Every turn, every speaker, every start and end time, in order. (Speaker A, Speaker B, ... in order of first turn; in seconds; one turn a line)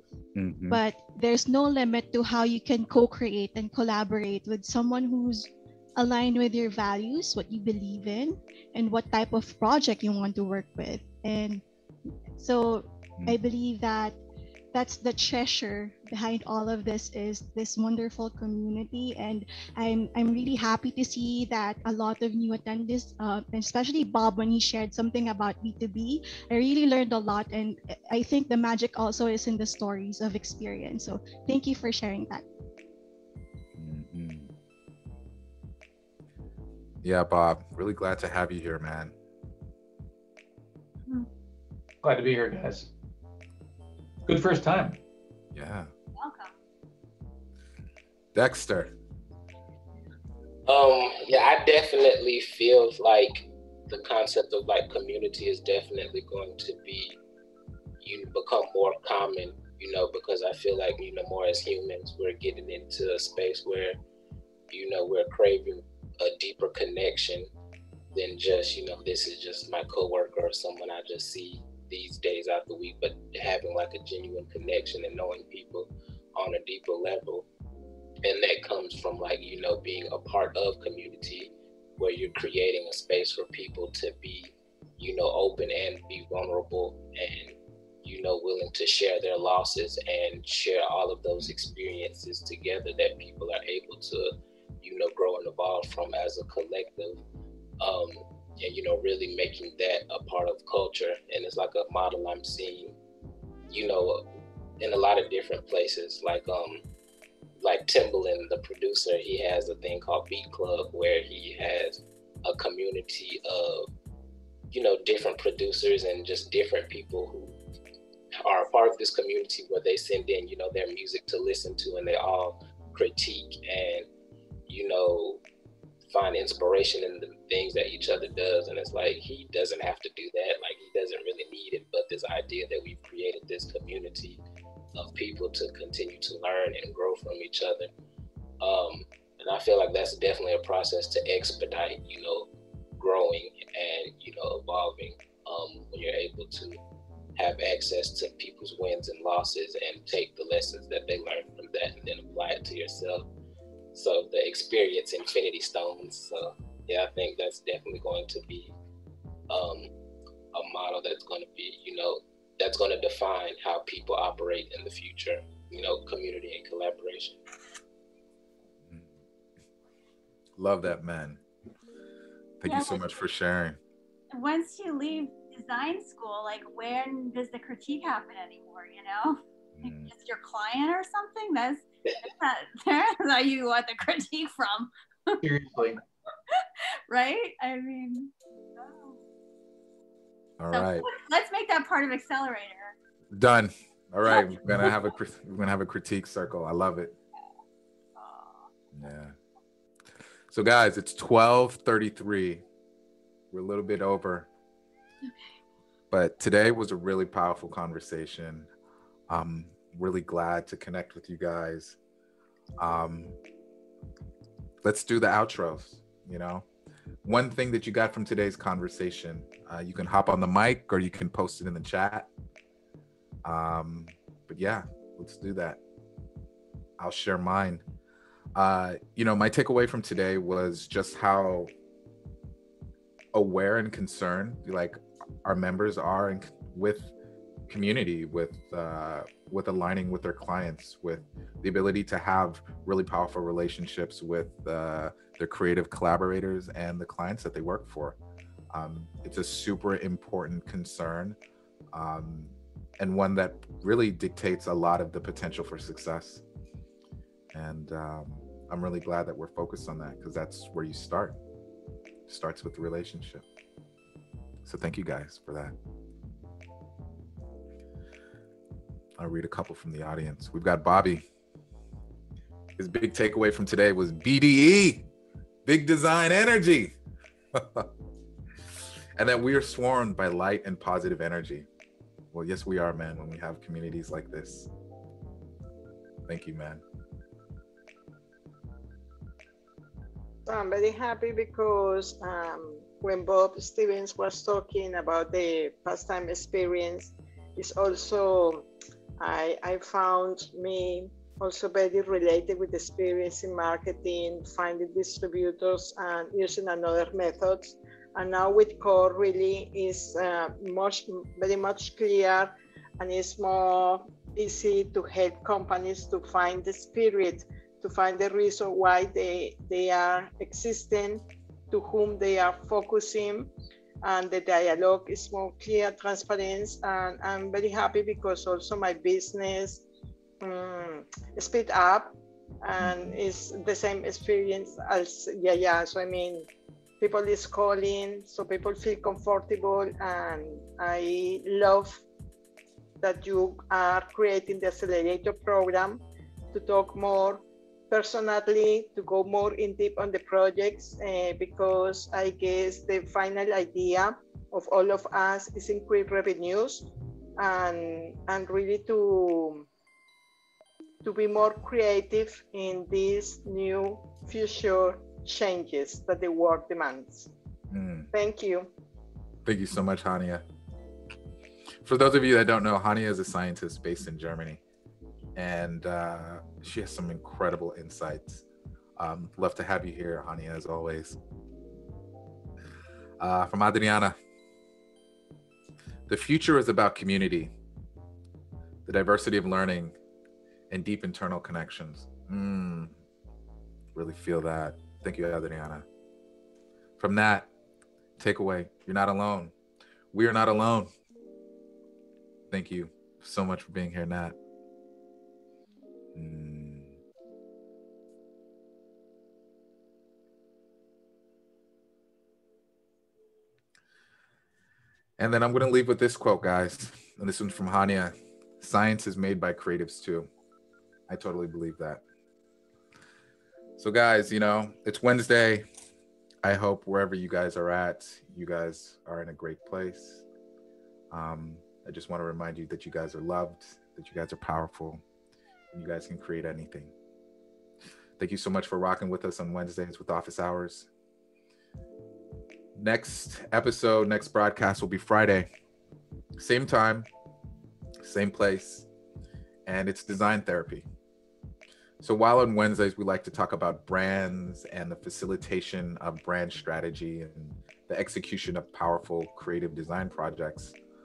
Speaker A: 0.3-0.8
Speaker B: 0.7-11.6
Speaker B: 12.3-14.2
Speaker B: 14.7-32.4
Speaker A: 33.8-34.5
Speaker A: 37.0-39.1
Speaker C: 42.0-42.9
Speaker C: 44.3-45.0
Speaker A: 45.5-45.9
Speaker D: 46.2-46.5
Speaker A: 48.4-48.9
Speaker E: 50.7-57.2
Speaker E: 58.0-64.0
Speaker E: 64.7-67.5
Speaker E: 68.1-77.5
Speaker E: 78.2-97.2
Speaker E: 97.8-103.0
Speaker E: 103.7-104.2
Speaker E: 104.8-106.8
Speaker E: 107.6-113.9
Speaker E: 114.7-117.6
Speaker E: 118.4-124.1
Speaker E: 124.7-125.4
Speaker E: 126.1-134.4
Speaker E: 134.9-137.9
Speaker E: 138.6-146.8
Speaker E: 147.4-153.3
Speaker E: 153.9-158.7
Speaker E: 159.5-159.9
Speaker E: 160.5-167.4
Speaker A: 170.6-171.4
Speaker A: 172.6-173.8
Speaker D: 172.7-173.2
Speaker D: 174.3-185.4
Speaker A: 179.8-180.1
Speaker C: 185.4-186.0
Speaker D: 186.6-189.2
Speaker A: 190.6-191.1
Speaker D: 190.7-192.9
Speaker A: 193.3-197.1
Speaker D: 194.3-195.1
Speaker D: 198.2-198.7
Speaker A: 198.9-199.3
Speaker A: 200.5-202.6
Speaker A: 203.5-204.5
Speaker D: 205.2-205.5
Speaker A: 206.1-208.7
Speaker A: 209.3-212.0
Speaker A: 212.8-213.4
Speaker A: 214.8-216.7
Speaker A: 217.2-222.3
Speaker A: 223.4-225.8
Speaker A: 227.0-227.8
Speaker A: 228.6-231.7
Speaker A: 233.3-237.1
Speaker A: 237.7-248.2
Speaker A: 248.7-251.4
Speaker A: 251.9-256.4
Speaker A: 257.5-261.4
Speaker A: 262.3-263.4
Speaker A: 264.7-265.8
Speaker A: 269.2-271.2
Speaker A: 272.8-275.1
Speaker A: 275.7-276.9
Speaker A: 277.6-277.9
Speaker A: 279.2-281.7
Speaker A: 282.3-284.7
Speaker A: 286.3-286.8
Speaker F: 290.5-298.7
Speaker F: 299.2-323.5
Speaker F: 324.0-329.8
Speaker F: 330.4-336.5
Speaker F: 337.0-342.0
Speaker F: 343.0-346.0
Speaker F: 346.5-356.9
Speaker F: 357.4-359.7
Speaker F: 361.0-367.3
Speaker A: 367.7-368.1
Speaker F: 368.1-368.7
Speaker A: 369.4-370.4
Speaker A: 371.8-374.6
Speaker A: 375.4-378.4
Speaker A: 379.0-381.2
Speaker A: 383.2-384.2
Speaker A: 386.1-387.5
Speaker A: 388.9-389.9
Speaker A: 390.7-392.9
Speaker A: 393.9-395.9
Speaker A: 397.0-397.5
Speaker A: 398.2-399.5
Speaker A: 400.1-400.9
Speaker A: 402.5-404.4
Speaker A: 406.1-406.9
Speaker A: 415.2-420.3
Speaker A: 421.1-422.0
Speaker A: 423.8-425.7
Speaker A: 426.4-430.2
Speaker A: 431.1-435.0
Speaker A: 435.7-436.9
Speaker A: 438.2-440.9
Speaker A: 442.8-445.5
Speaker A: 446.4-447.1
Speaker A: 448.0-448.9
Speaker A: 449.7-450.9
Speaker A: 452.0-460.8